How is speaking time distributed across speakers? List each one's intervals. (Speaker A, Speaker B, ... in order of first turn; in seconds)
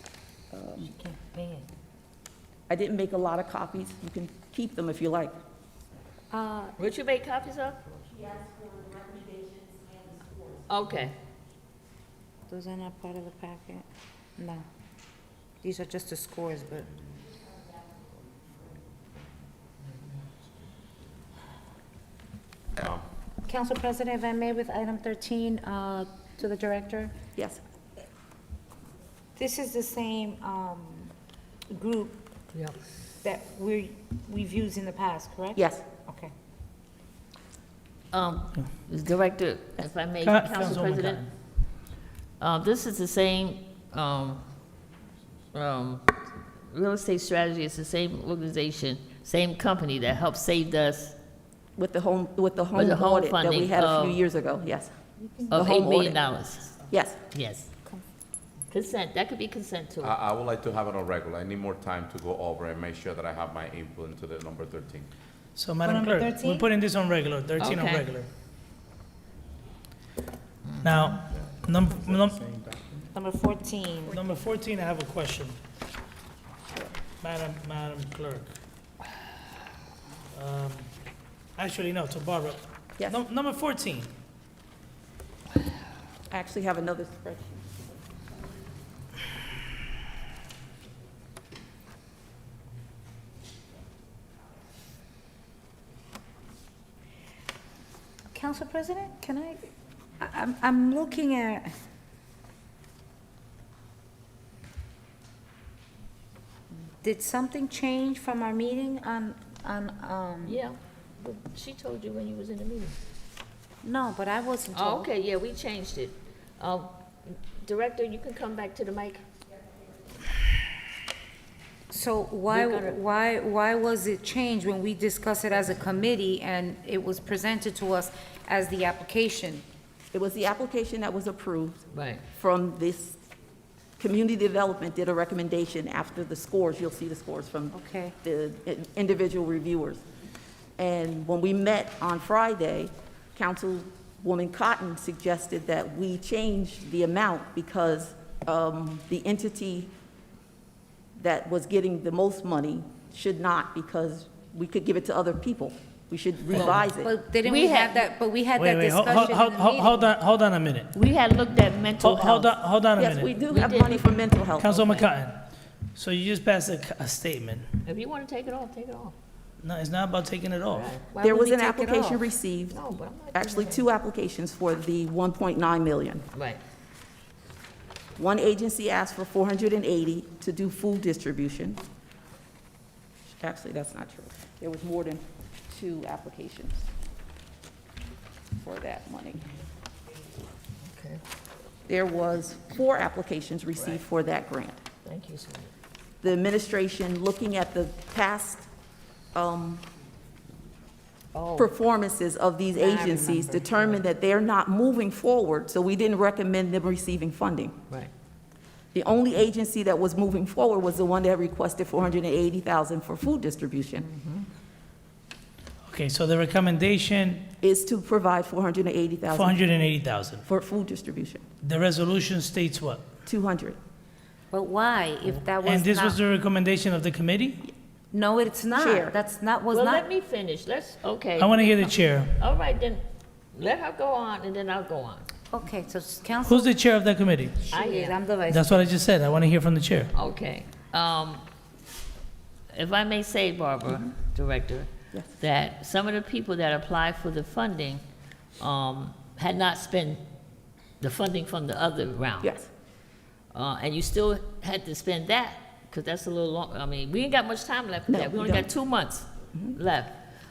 Speaker A: 0.5-0.9, 2.7-5.3, 27.4-27.6, 35.5-35.9, 51.8-54.9, 55.5-56.2, 56.9-57.2, 86.3-88.0, 130.1-133.2, 134.0-140.0, 140.8-149.9, 151.2-157.1, 163.0-164.8, 171.2-172.8, 173.3-176.2, 178.2-181.8, 183.4-186.9, 188.6-189.4, 191.9-194.8, 196.2-198.7, 199.3-199.8, 201.6-207.8, 208.9-214.1, 217.6-219.6, 220.4-221.4, 223.3-223.8, 228.8-229.2, 252.4-252.7, 258.1-258.7
Speaker B: 0.8-1.7, 6.3-6.8, 12.5-13.8, 14.4-14.7, 15.6-16.9, 23.5-27.1, 29.4-31.1, 31.7-32.2, 33.2-36.3, 65.8-66.7, 73.2-74.2, 98.3-99.7, 100.2-101.7, 107.0-110.6, 113.8-115.1, 121.9-129.7, 137.7-138.1, 157.0-160.1, 171.2-172.2, 224.5-226.2, 228.1-230.1, 235.5-236.7, 237.6-238.8
Speaker C: 6.8-7.8, 10.7-11.2, 38.1-41.3, 42.4-44.5, 45.5-51.1, 52.8-54.2, 55.5-56.8, 57.3-57.7, 58.7-60.1, 67.6-68.0, 110.4-113.0, 114.7-119.2, 122.5-123.0, 131.9-132.2, 156.5-156.8, 157.4-158.1, 160.9-162.5, 163.5-165.1, 167.8-169.1, 170.7-171.4, 172.7-173.8, 176.3-176.6, 190.8-191.2, 195.0-195.7, 201.3-201.7, 202.9-203.7, 214.0-214.5, 229.7-233.0, 233.6-235.3, 237.7-238.2, 240.1-241.4, 242.7-248.0, 248.6-250.2, 251.0-252.5, 253.5-260.2
Speaker D: 22.8-23.0, 60.0-65.1, 71.5-73.1
Speaker E: 40.2-41.3, 65.6-68.3, 70.8-72.4, 74.1-75.6, 77.2-78.5, 80.3-80.9, 81.6-84.1, 158.6-160.9, 162.0-163.3, 164.6-165.4, 165.9-167.7, 169.6-170.9, 215.9-217.4, 219.3-220.4, 221.6-223.1, 225.6-227.6, 231.4-232.3, 236.4-237.6, 238.5-240.1